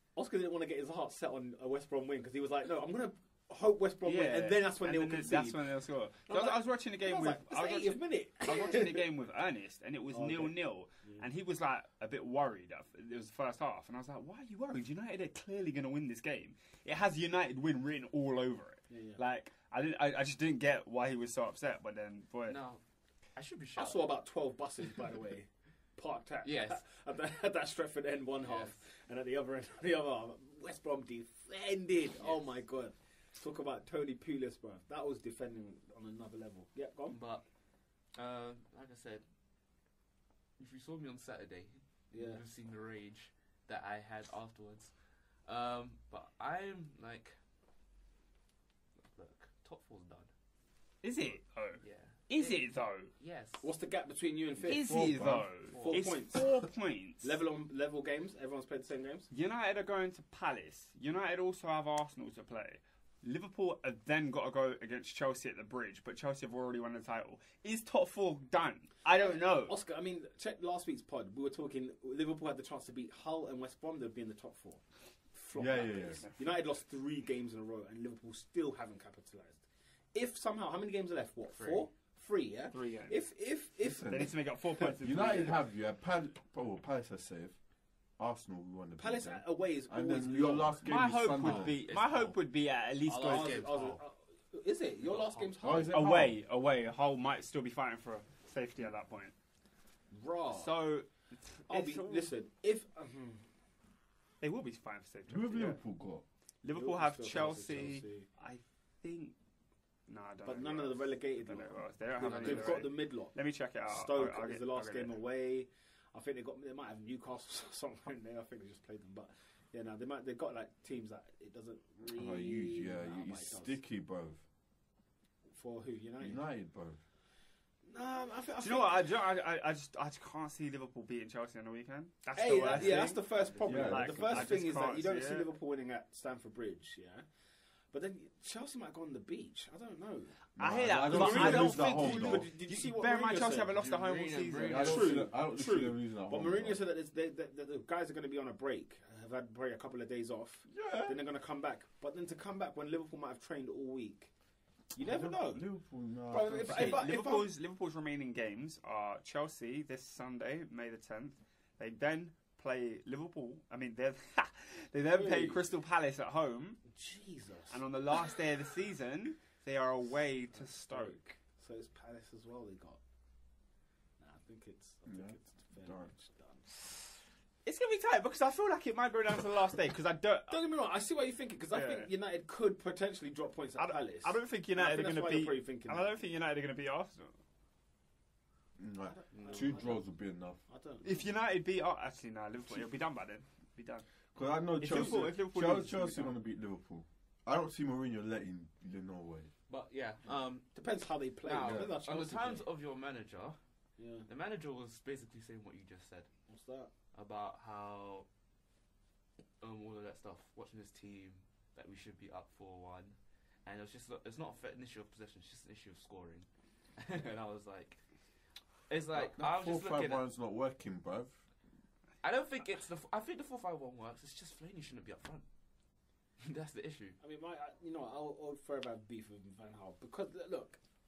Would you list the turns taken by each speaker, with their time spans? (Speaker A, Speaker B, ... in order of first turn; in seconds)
Speaker A: 0.1-5.7, 6.3-9.1, 10.1-11.2, 18.9-19.2, 23.8-37.2, 42.1-42.4, 53.6-55.0, 55.9-56.6, 57.2-59.3, 69.2-79.6, 80.1-84.3, 89.0-90.9, 93.2-96.0, 100.1-100.7, 101.7-103.4, 106.7-108.3, 110.5-113.3, 113.9-123.8, 125.5-126.4, 127.9-129.0, 132.3-137.3, 137.9-140.4, 140.9-143.8, 144.7-154.3, 154.9-155.7, 156.3-157.5, 165.1-165.7, 166.9-167.8, 170.5-173.0, 174.2-177.2, 180.5-186.1, 189.1-190.1, 190.7-191.2, 200.8-202.7, 204.0-204.3, 206.5-206.9, 227.2-230.8
Speaker B: 4.0-22.6, 51.0-53.1, 54.7-57.3, 59.3-69.8, 76.2-76.6, 82.7-83.3, 84.0-85.6, 90.8-93.6, 95.9-99.3, 100.5-102.3, 104.4-105.8, 106.6-109.3, 110.1-115.1, 128.6-135.5, 140.6-145.1, 156.6-166.8, 167.7-171.3, 177.7-180.6, 181.7-182.1, 183.8-187.4, 191.0-194.1, 194.8-196.3
Speaker C: 22.5-22.8, 23.3-24.1, 26.4-26.8, 28.4-28.8, 32.2-32.6, 37.1-37.5, 38.1-39.3, 40.6-47.4, 49.1-50.3, 51.8-53.7, 55.7-56.1, 81.5-81.9, 91.5-92.4, 93.1-94.0, 95.0-95.6, 112.2-112.9, 132.5-133.9, 143.7-145.3, 189.3-189.8, 199.7-203.6, 204.3-206.3, 207.1-208.3, 209.6-218.0, 218.9-220.2, 222.2-225.4, 226.4-227.2
Speaker D: 54.6-55.5, 75.5-76.2, 83.8-87.6, 88.2-91.8, 95.6-96.4, 105.3-106.2, 122.0-124.4, 126.2-127.0, 133.6-134.6, 140.6-142.5, 144.7-146.8, 150.7-151.2, 155.0-157.0, 175.1-176.1, 188.8-190.6, 194.3-199.5, 201.6-201.9, 219.1-221.4